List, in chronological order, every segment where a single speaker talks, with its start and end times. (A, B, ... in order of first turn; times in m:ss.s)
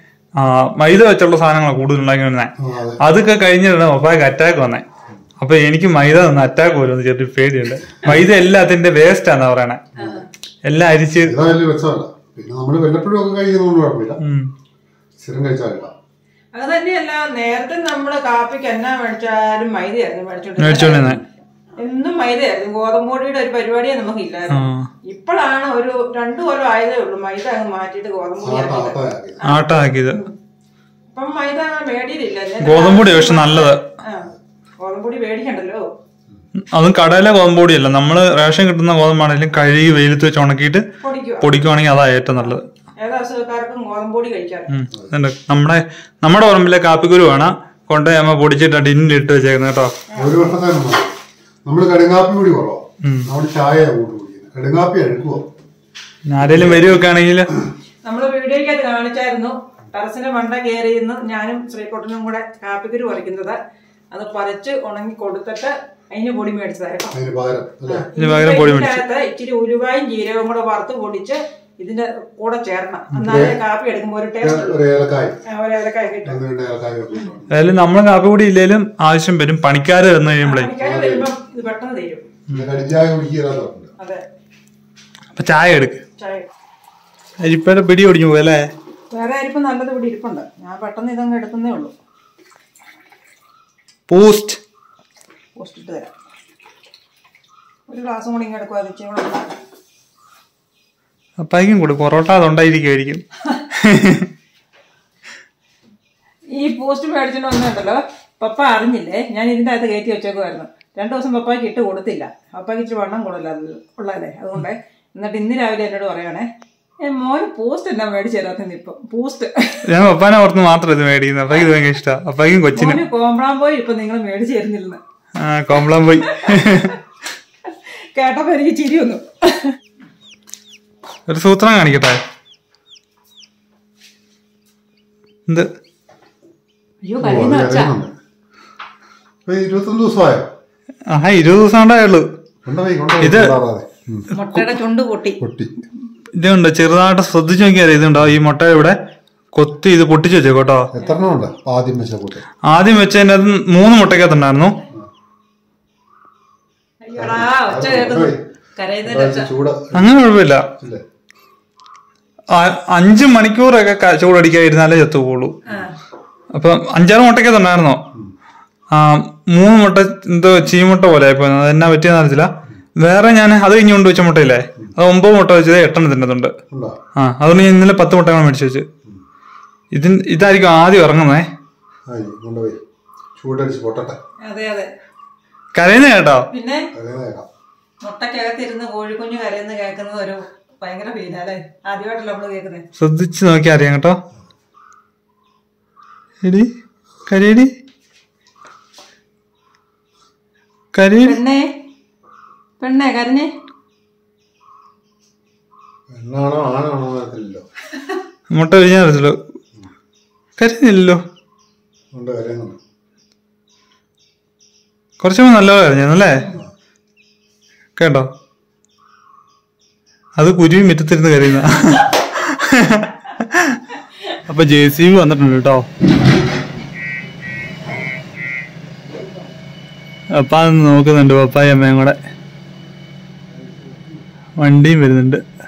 0:00.4-0:04.8 A
0:02.6-0:03.0 B
0:05.4-0:09.8 A
0:10.0-0:10.2 B
0:10.0-0:10.2 C
0:10.6-0:11.3 A
0:11.2-0:14.2 B
0:14.2-0:14.5 A
0:15.2-0:15.9 B
0:16.5-0:21.2 C
0:20.6-0:21.2 A
0:21.8-0:30.3 C
0:24.5-0:24.9 A
0:28.4-0:29.5 B
0:29.4-0:30.2 A
0:31.1-0:34.3 C
0:32.6-0:33.8 A
0:34.8-0:35.9 C
0:36.6-0:40.8 A
0:41.0-0:41.6 C
0:41.4-0:42.6 A
0:42.3-0:44.7 C
0:44.7-0:49.9 A
0:50.2-0:51.1 B
0:51.6-0:55.5 B
0:53.0-0:53.3 A
0:56.3-0:57.5 A
0:56.4-0:57.0 B
0:58.0-1:03.6 C
1:04.1-1:07.2 C
1:07.1-1:08.1 B
1:07.9-1:14.8 C
1:08.2-1:09.0 A
1:13.1-1:13.6 B
1:14.4-1:15.4 B
1:15.4-1:16.4 C
1:16.2-1:17.5 B
1:17.5-1:20.7 A
1:20.4-1:22.3 C
1:20.8-1:21.3 B
1:22.5-1:23.9 B
1:25.3-1:26.0 A
1:26.2-1:26.5 C
1:27.4-1:28.7 A
1:29.1-1:31.9 C
1:34.1-1:34.6 A
1:35.6-1:36.1 C
1:37.9-1:39.6 C
1:41.4-1:43.2 A
1:43.7-1:44.3 A
1:46.5-1:56.5 C
1:57.0-1:59.9 C
1:59.9-2:03.0 A
2:02.7-2:05.0 C
2:05.4-2:06.9 A
2:07.7-2:09.8 C
2:11.3-2:12.2 A
2:17.0-2:17.9 C
2:17.2-2:18.1 B
2:19.4-2:20.5 B
2:21.1-2:22.3 A
2:22.6-2:24.3 B
2:23.2-2:23.5 A
2:24.3-2:25.4 C
2:25.4-2:25.8 B
2:26.4-2:29.0 A
2:29.5-2:30.9 A
2:30.9-2:32.4 B
2:32.6-2:34.7 A
2:37.0-2:39.5 C
2:37.2-2:38.4 B
2:39.0-2:40.2 B
2:39.9-2:40.7 A
2:40.8-2:41.0 B
2:42.5-2:45.5 A
2:45.7-2:45.9 C
2:46.5-2:48.0 A
2:48.9-2:56.5 A
2:56.7-2:57.0 B
2:57.2-2:58.9 A
2:59.9-3:01.5 A
3:02.1-3:02.8 B
3:03.4-3:04.2 B
3:04.4-3:04.9 C
3:05.7-3:06.4 A
3:06.5-3:06.9 C
3:06.9-3:07.5 B
3:08.0-3:12.8 C
3:13.0-3:14.2 A
3:16.4-3:16.7 A
3:17.3-3:17.7 A
3:20.9-3:21.4 A
3:21.2-3:21.7 C
3:22.8-3:23.5 C
3:26.1-3:27.6 B
3:28.5-3:29.4 A
3:30.6-3:31.2 A
3:32.1-3:32.8 B
3:35.2-3:36.4 A
3:38.0-3:38.3 A
3:40.4-3:43.8 A
3:44.5-3:45.9 A
3:50.4-3:52.2 A
3:53.6-3:54.1 B
3:54.6-3:55.4 A